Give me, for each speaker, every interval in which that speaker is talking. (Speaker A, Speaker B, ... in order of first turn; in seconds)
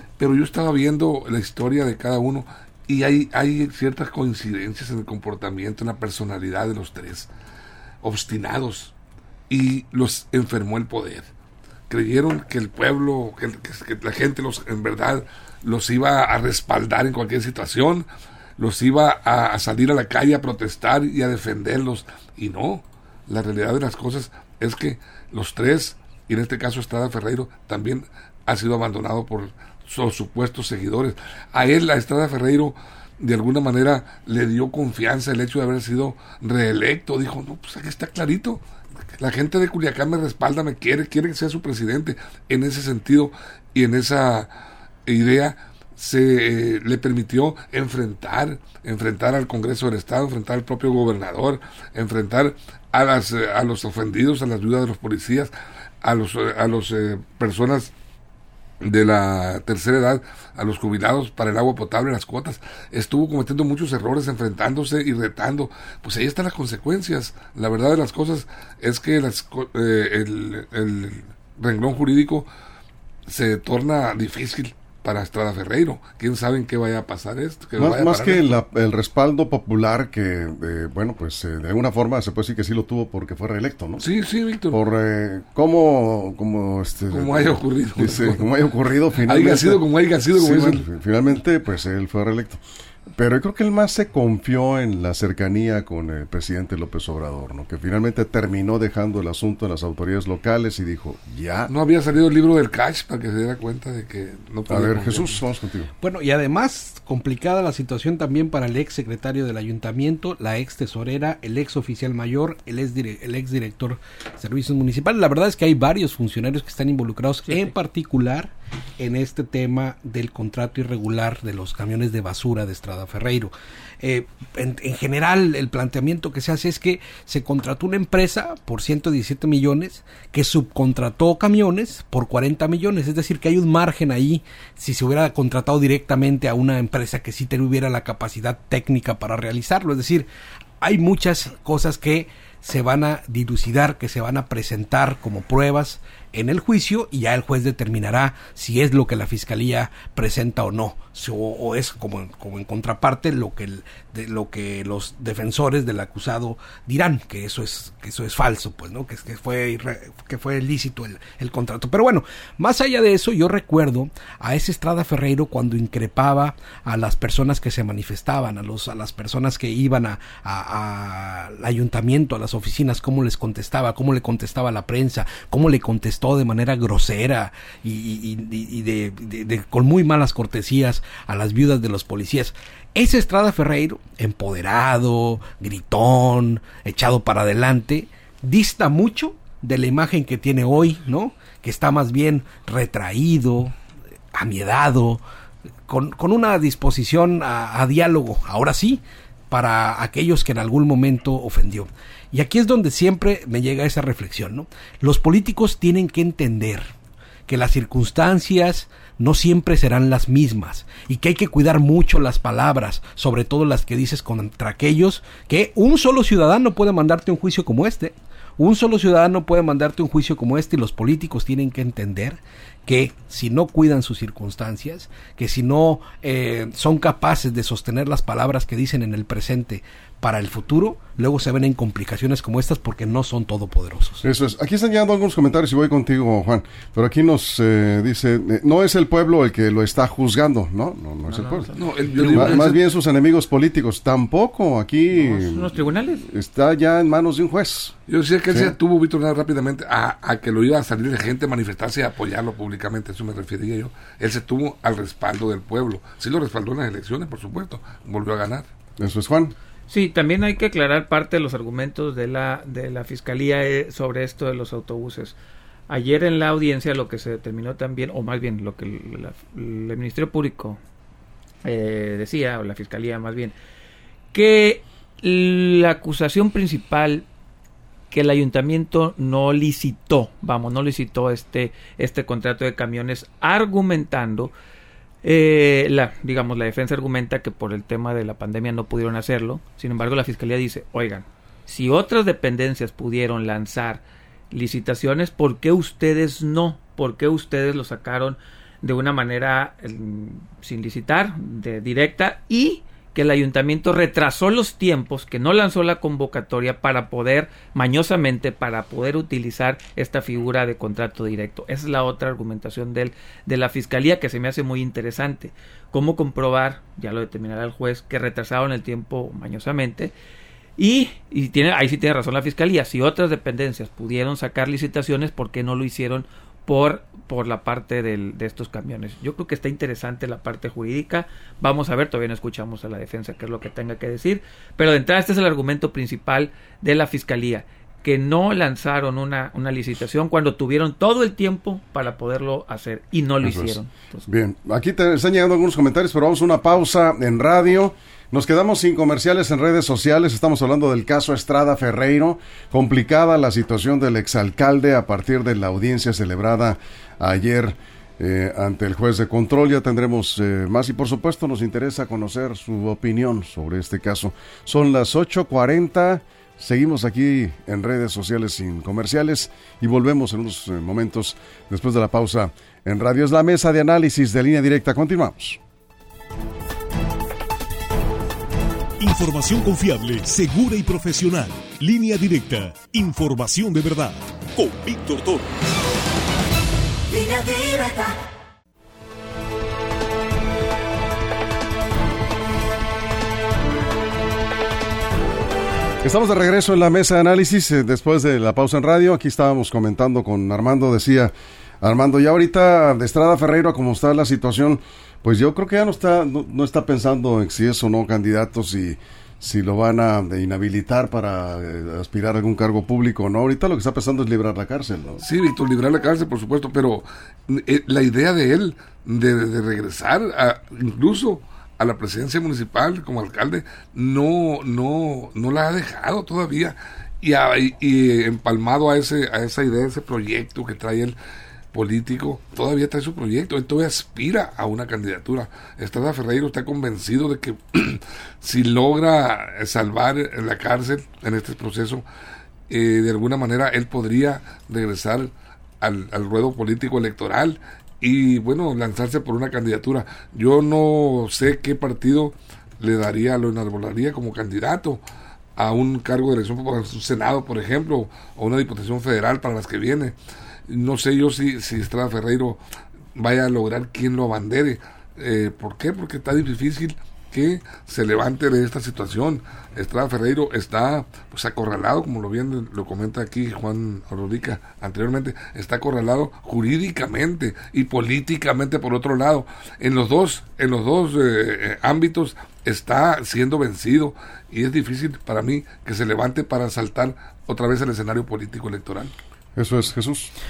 Speaker A: 0.2-7.3, 8.0-8.9, 9.5-11.2, 11.9-18.1, 18.6-38.6, 39.2-44.5, 45.0-57.9, 58.8-72.5, 73.3-78.6, 84.0-84.8, 87.1-88.5, 89.2-90.8, 101.7-105.4, 241.7-242.8, 248.1-258.7, 415.2-431.1, 431.7-442.0, 442.7-455.0, 455.6-460.1, 460.7-462.6, 463.1-489.1
Speaker B: 77.8-84.0, 84.7-89.8, 90.4-92.6, 93.2-101.7, 104.7-105.9, 234.2-241.7, 242.2-247.9, 248.5-248.7, 259.0-259.5, 343.4-375.6, 396.0-415.2, 489.5-490.3
Speaker C: 106.0-140.3, 140.8-193.7, 194.3-195.2, 195.9-206.9, 207.5-234.2
Speaker D: 117.5-117.7, 241.3-242.7, 245.1-246.3, 259.9-265.4, 265.9-270.8, 271.6-273.5, 274.3-277.2, 278.1-284.5, 285.2-320.1, 320.8-344.3, 387.5-387.9
Speaker E: 379.0-385.5, 387.1-387.5